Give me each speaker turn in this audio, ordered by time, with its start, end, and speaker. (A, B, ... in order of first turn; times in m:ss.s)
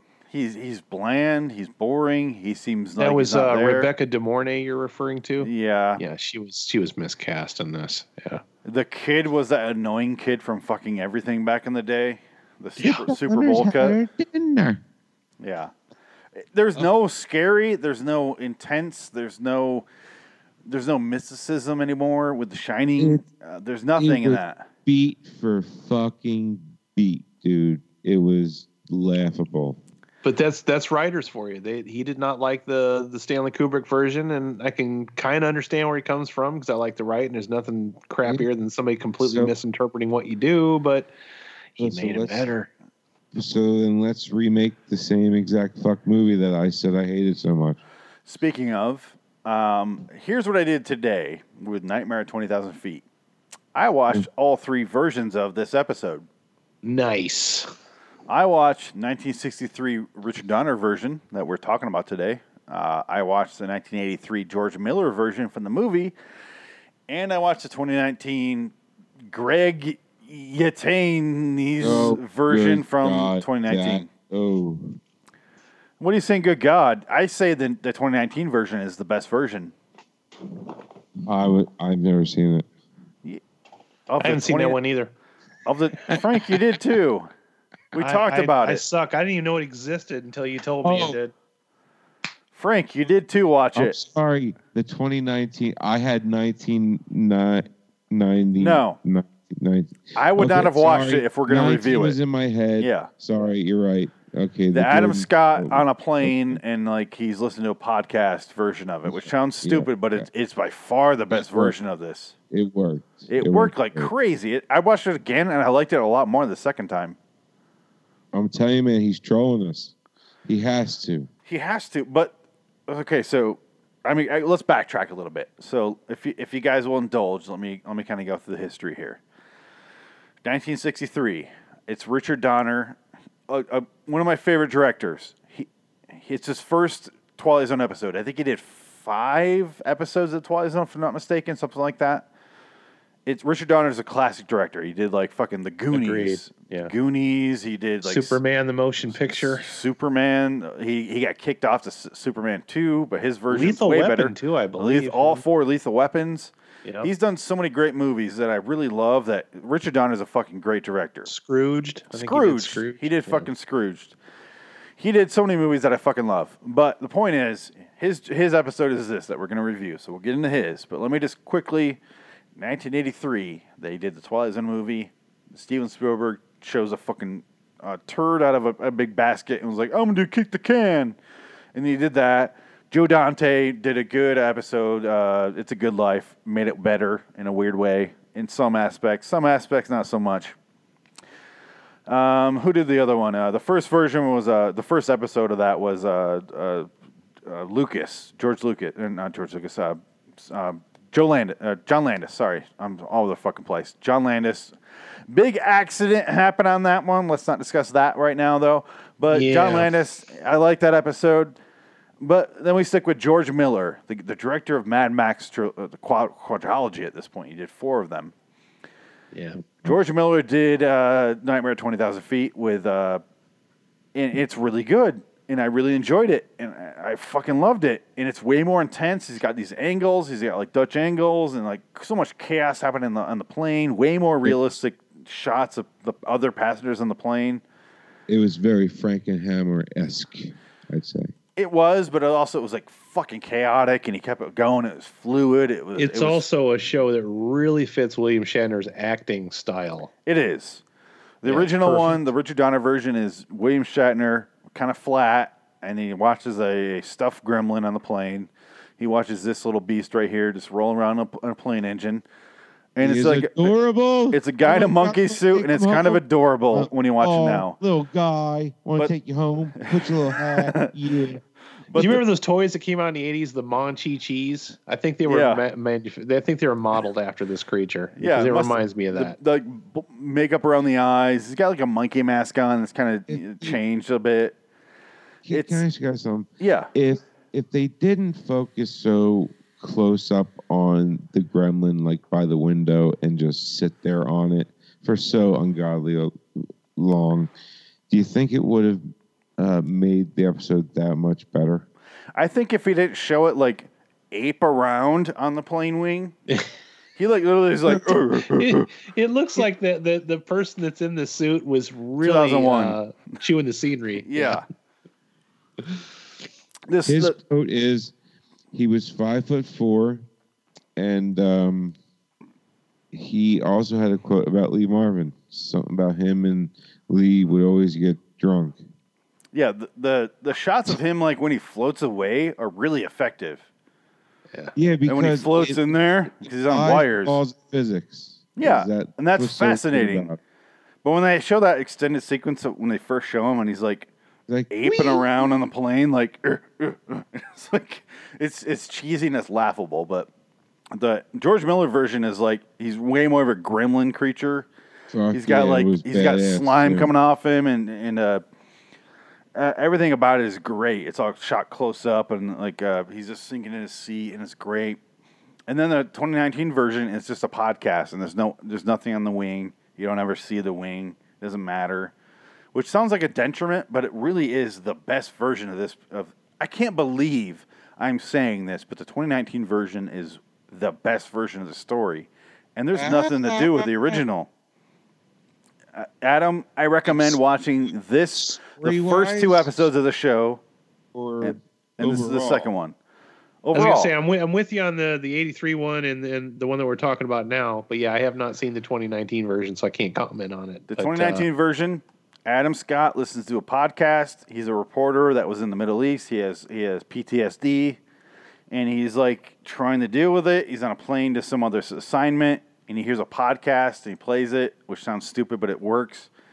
0:00.3-0:03.9 A
0:03.0-0:08.4 B
0:05.4-0:06.0 A
0:08.6-0:14.0 A
0:12.8-0:14.8 C
0:15.4-0:15.7 A
0:16.4-0:19.8 A
0:20.6-0:24.7 A
0:23.0-0:23.2 C
0:24.0-0:29.8 C
0:30.2-0:41.1 B
0:39.2-0:39.5 C
0:41.8-0:42.7 B
0:41.8-0:42.5 C
0:43.3-0:47.8 C
0:48.3-0:53.0 A
0:53.7-0:56.2 A
0:56.8-0:57.7 B
0:58.3-1:06.1 A
1:07.1-1:08.7 A
1:09.3-1:14.1 A
1:11.8-1:15.0 C
1:16.0-1:19.7 A
1:21.2-1:22.7 C
1:24.1-1:24.8 A
1:24.2-1:25.1 B
1:25.6-1:27.3 A
1:27.9-1:28.8 A
1:28.0-1:31.3 B
1:30.8-1:31.2 C
1:32.5-1:34.0 A
1:33.8-1:46.6 C
1:38.6-1:39.0 A
1:40.1-1:42.2 A
1:42.8-1:43.1 A
1:44.7-1:52.3 A
1:49.0-1:50.2 C
1:51.3-1:51.7 C
1:52.5-1:54.1 C
1:53.3-1:57.2 A
1:58.3-1:59.9 C
2:00.4-2:01.3 C
2:01.4-2:02.3 A
2:02.9-2:09.2 A
2:10.4-2:13.0 A
2:13.5-2:22.3 A
2:23.2-2:28.4 A
2:25.9-2:26.9 B
2:28.0-2:29.6 B
2:29.2-2:41.3 A
2:33.5-2:35.4 B
2:41.3-2:43.5 B
2:42.1-2:44.1 A
2:45.0-2:52.0 A
2:52.6-3:01.2 A
3:01.7-3:10.6 A
3:12.1-3:16.9 A
3:17.4-3:24.7 A
3:25.3-3:31.6 A
3:29.3-3:29.9 B
3:32.2-3:38.3 A
3:39.3-3:39.6 B
3:39.8-3:43.2 A
3:44.1-3:57.6 A
3:58.3-4:01.3 C
4:01.6-4:06.4 A
4:06.0-4:10.1 B
4:10.2-4:10.8 A
4:11.4-4:22.2 A
4:11.4-4:12.2 B
4:22.9-4:23.7 A
4:23.0-4:31.4 C
4:24.3-4:27.8 A
4:29.8-4:30.9 A
4:31.9-4:32.2 A
4:32.0-4:39.4 B
4:35.3-4:35.6 A
4:38.2-4:44.6 A
4:43.3-4:43.8 C
4:45.4-4:57.5 C
4:45.5-4:45.8 A
4:46.6-4:46.9 A
4:58.1-5:01.8 C
5:02.3-5:06.3 A
5:07.2-5:08.9 A
5:08.5-5:14.6 B
5:12.2-5:13.0 A
5:14.2-5:14.6 A
5:16.9-5:17.4 A
5:17.1-5:18.1 C
5:18.7-5:20.2 C
5:21.0-5:22.0 C
5:23.1-5:28.8 C
5:29.5-5:33.6 A
5:34.8-5:40.4 C
5:35.1-5:37.4 A
5:38.6-5:40.3 A
5:41.0-5:44.1 A
5:44.5-5:45.2 C
5:44.7-5:50.3 A
5:50.9-5:54.7 A
5:55.1-5:57.1 C
5:55.3-5:58.4 A
5:59.5-6:05.0 A
6:05.7-6:12.1 A
6:12.7-6:24.5 A
6:22.9-6:24.2 C
6:25.9-6:30.6 A
6:27.1-6:27.4 C
6:28.5-6:29.9 C
6:31.1-6:32.7 C
6:31.4-6:33.0 A
6:33.6-6:34.1 A
6:33.7-6:41.4 B
6:40.9-6:48.0 A
6:48.7-6:56.3 A